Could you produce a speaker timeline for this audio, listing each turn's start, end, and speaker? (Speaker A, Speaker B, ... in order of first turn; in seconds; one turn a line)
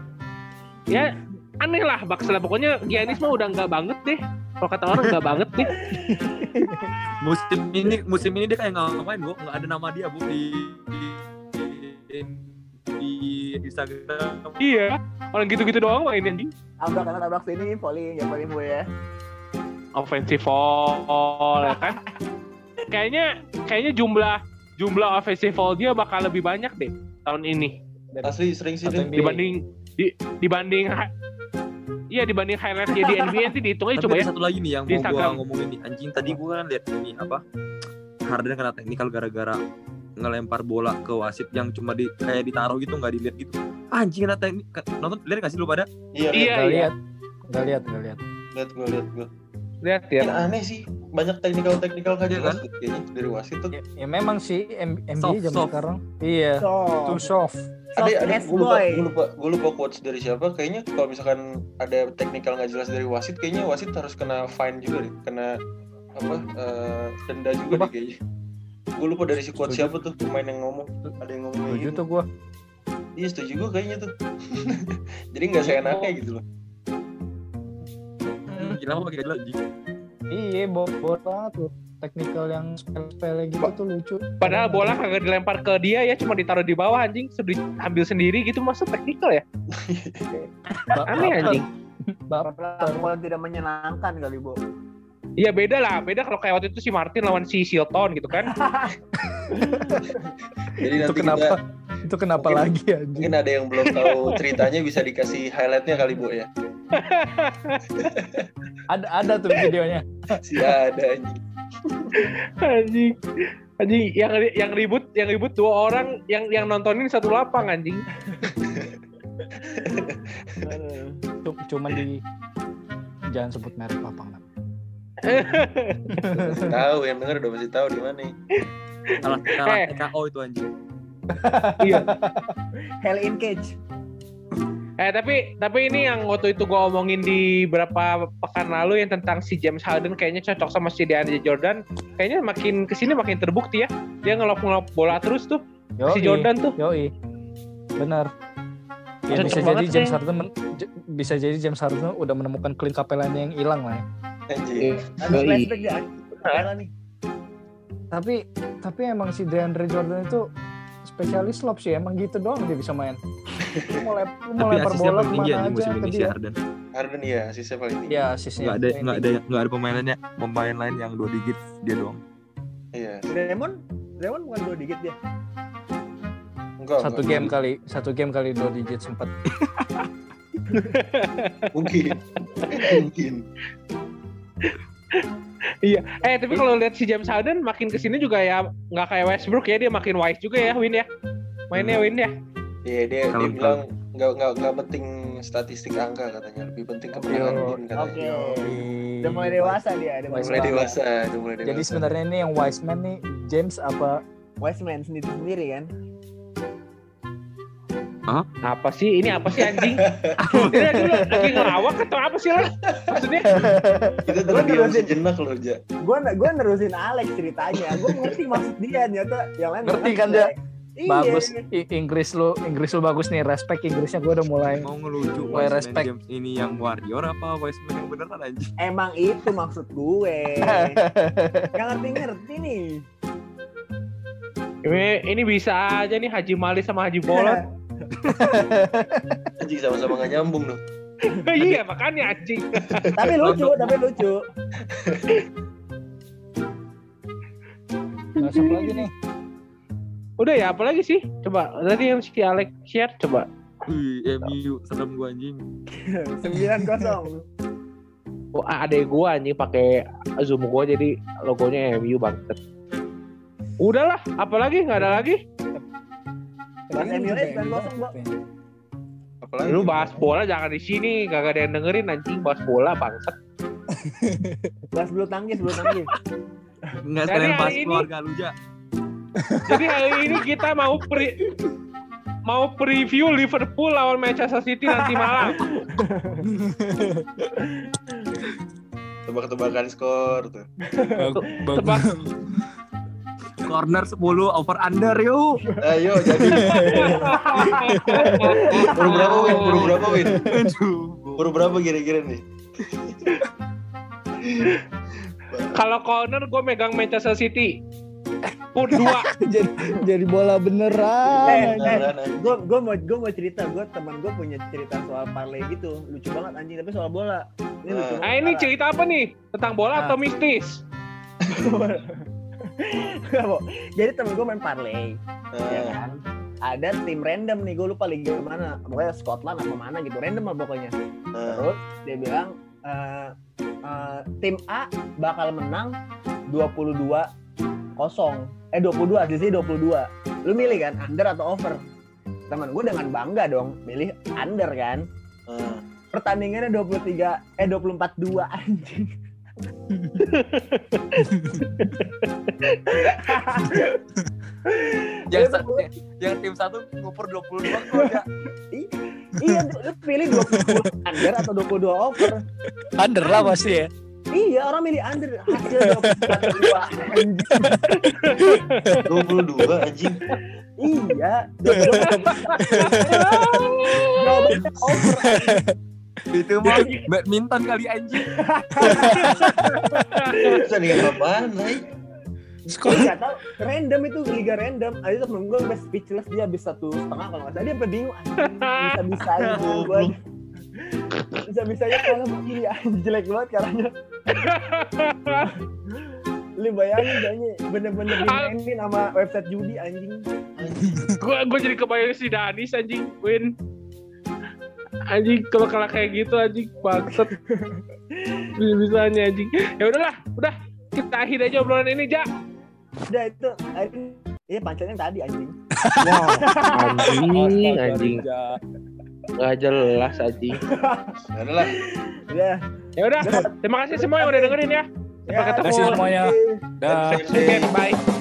Speaker A: 0.9-5.7
Speaker B: 5.7-6.9
Speaker C: 6.0-6.8
Speaker D: 7.2-14.6
Speaker A: 14.6-16.5
Speaker B: 16.8-18.9
Speaker A: 19.9-22.0
Speaker A: 22.9-28.3
Speaker E: 28.2-29.1
Speaker C: 28.8-29.5
Speaker A: 29.1-31.1
Speaker A: 32.1-34.3
Speaker D: 34.0-37.4
Speaker A: 34.9-35.4
Speaker D: 38.3-39.6
Speaker D: 40.2-45.9
Speaker E: 46.1-46.5
Speaker A: 46.3-46.9
Speaker C: 46.4-46.9
Speaker C: 47.5-48.2
Speaker E: 48.5-49.3
Speaker A: 49.8-50.4
Speaker E: 50.2-53.7
Speaker D: 52.3-52.6
Speaker C: 53.7-57.7
Speaker D: 55.2-55.8
Speaker B: 56.6-57.3
Speaker B: 58.0-59.1
Speaker E: 58.0-65.5
Speaker E: 66.2-68.2
Speaker E: 69.0-72.0
Speaker C: 69.6-70.0
Speaker C: 71.7-72.3
Speaker E: 73.2-76.4
Speaker A: 75.8-76.1
Speaker C: 78.5-78.8
Speaker D: 78.5-79.6
Speaker C: 80.3-85.0
Speaker A: 84.4-89.4
Speaker E: 89.7-90.5
Speaker C: 90.9-91.6
Speaker A: 91.1-91.6
Speaker C: 92.3-93.1
Speaker B: 92.4-94.6
Speaker A: 95.4-98.5
Speaker B: 98.5-98.9
Speaker C: 99.2-100.0
Speaker B: 99.6-100.0
Speaker E: 100.7-101.6
Speaker C: 101.0-103.3
Speaker E: 102.4-106.5
Speaker A: 106.9-108.1
Speaker E: 108.0-108.5
Speaker C: 108.9-110.4
Speaker E: 110.4-112.2
Speaker A: 112.1-113.2
Speaker A: 113.8-118.0
Speaker E: 118.6-118.9
Speaker E: 119.8-120.3
Speaker B: 120.6-121.2
Speaker C: 121.4-122.2
Speaker C: 123.3-124.4
Speaker A: 125.2-126.2
Speaker C: 126.2-126.6
Speaker E: 126.5-128.3
Speaker D: 129.2-130.7
Speaker A: 129.6-129.9
Speaker C: 131.3-132.5
Speaker A: 131.8-132.1
Speaker B: 133.0-133.8
Speaker A: 135.0-146.7
Speaker C: 146.0-147.1
Speaker C: 148.0-148.3
Speaker C: 149.3-154.0
Speaker A: 149.3-150.2
Speaker E: 154.5-155.4
Speaker A: 154.8-155.9
Speaker B: 155.2-156.9
Speaker C: 158.1-160.4
Speaker C: 161.0-163.2
Speaker E: 163.7-164.0
Speaker C: 163.7-166.3
Speaker D: 164.6-166.6
Speaker E: 166.9-168.2
Speaker C: 168.1-169.2
Speaker D: 168.6-172.2
Speaker E: 172.9-173.3
Speaker B: 173.3-175.2
Speaker E: 176.8-177.5
Speaker C: 177.0-179.3
Speaker A: 180.8-181.7
Speaker E: 181.7-183.4
Speaker A: 182.6-183.0
Speaker A: 184.6-185.3
Speaker A: 185.8-191.1
Speaker A: 191.7-192.3
Speaker D: 191.7-192.0
Speaker E: 192.8-198.6
Speaker D: 193.3-193.8
Speaker C: 197.1-197.8
Speaker B: 197.9-201.0
Speaker C: 198.6-199.8
Speaker C: 200.3-200.7
Speaker A: 200.3-200.7
Speaker E: 200.5-202.1
Speaker C: 201.6-204.2
Speaker B: 204.6-205.9
Speaker A: 208.7-210.0
Speaker E: 209.5-210.3
Speaker C: 210.5-211.7
Speaker A: 210.6-213.5
Speaker E: 212.9-213.7
Speaker C: 213.5-214.2
Speaker E: 214.2-215.8
Speaker B: 214.5-215.1
Speaker B: 216.0-221.6
Speaker E: 217.8-218.3
Speaker C: 219.8-220.5
Speaker C: 221.1-224.9
Speaker D: 224.7-228.7
Speaker C: 225.5-226.1
Speaker B: 228.8-231.0
Speaker C: 230.7-231.7
Speaker B: 231.7-233.0
Speaker A: 234.8-237.6
Speaker B: 237.3-237.6
Speaker C: 238.2-239.5
Speaker E: 239.6-240.8
Speaker A: 241.3-243.1
Speaker B: 243.2-244.4
Speaker D: 243.3-243.9
Speaker E: 244.9-245.4
Speaker C: 248.4-249.1
Speaker A: 248.4-249.0
Speaker A: 250.4-253.5
Speaker D: 253.8-255.6
Speaker B: 255.9-257.4
Speaker A: 258.5-262.6
Speaker A: 263.8-265.4
Speaker C: 264.9-265.8
Speaker C: 266.9-268.4
Speaker B: 266.9-268.1
Speaker E: 269.4-270.3
Speaker A: 269.7-273.4
Speaker C: 274.0-274.7
Speaker B: 274.9-276.1
Speaker D: 277.0-278.5
Speaker A: 277.3-278.1
Speaker A: 279.7-281.4
Speaker A: 282.5-285.7
Speaker B: 285.0-286.4
Speaker C: 286.4-287.3
Speaker B: 287.6-287.9
Speaker E: 289.3-290.6
Speaker B: 290.9-291.3
Speaker C: 291.1-292.3
Speaker A: 291.3-292.1
Speaker D: 293.6-295.6
Speaker E: 295.8-297.2
Speaker C: 296.4-298.7
Speaker A: 296.8-299.9
Speaker B: 297.1-299.4
Speaker E: 298.8-300.4
Speaker C: 299.8-300.7
Speaker D: 300.4-301.7
Speaker E: 301.4-303.4
Speaker E: 304.4-304.8
Speaker E: 305.4-305.8
Speaker A: 305.7-307.7
Speaker A: 308.7-309.3
Speaker C: 308.9-312.0
Speaker E: 311.2-312.6
Speaker B: 311.5-318.7
Speaker E: 317.9-318.2
Speaker A: 318.2-320.8
Speaker E: 321.4-321.7
Speaker B: 321.5-325.2
Speaker E: 325.5-326.0
Speaker B: 325.7-330.9
Speaker E: 331.3-331.7
Speaker B: 331.4-335.9
Speaker B: 336.5-337.3
Speaker B: 338.0-341.8
Speaker E: 340.6-340.8
Speaker B: 342.5-345.1
Speaker E: 345.5-345.8
Speaker B: 346.1-349.1
Speaker C: 349.9-350.2
Speaker A: 350.3-351.2
Speaker C: 351.2-352.0
Speaker A: 351.8-353.3
Speaker B: 352.9-354.0
Speaker B: 354.7-355.9
Speaker D: 355.3-358.2
Speaker B: 357.8-358.2
Speaker B: 358.7-362.4
Speaker C: 360.3-361.5
Speaker C: 363.0-363.9
Speaker B: 364.3-367.8
Speaker C: 365.6-366.8
Speaker C: 367.5-369.0
Speaker A: 368.0-369.0
Speaker E: 369.1-370.2
Speaker B: 370.8-373.4
Speaker C: 371.7-373.6
Speaker A: 371.8-374.6
Speaker B: 374.1-375.6
Speaker C: 374.8-375.7
Speaker D: 376.3-378.3
Speaker A: 376.6-377.0
Speaker B: 378.3-379.7
Speaker C: 378.8-380.2
Speaker A: 379.4-380.6
Speaker B: 380.4-381.2
Speaker E: 380.6-381.9
Speaker C: 382.7-383.1
Speaker B: 382.7-390.1
Speaker A: 388.4-389.2
Speaker E: 389.4-390.1
Speaker B: 390.8-393.9
Speaker A: 391.1-391.4
Speaker A: 394.3-395.5
Speaker B: 395.9-400.2
Speaker A: 397.0-397.3
Speaker A: 398.1-398.5
Speaker E: 400.6-401.1
Speaker A: 401.2-403.6
Speaker A: 405.1-407.3
Speaker B: 407.2-408.5
Speaker A: 408.6-412.3
Speaker B: 413.1-415.6
Speaker C: 415.9-416.5
Speaker D: 416.0-416.3
Speaker B: 416.4-417.2
Speaker A: 416.7-418.2
Speaker D: 417.1-418.6
Speaker A: 419.4-420.6
Speaker B: 420.1-422.6
Speaker E: 421.3-421.7
Speaker A: 423.0-426.0
Speaker B: 423.2-424.6
Speaker B: 425.3-426.6
Speaker C: 425.6-426.3
Speaker E: 426.9-427.7
Speaker A: 426.9-428.0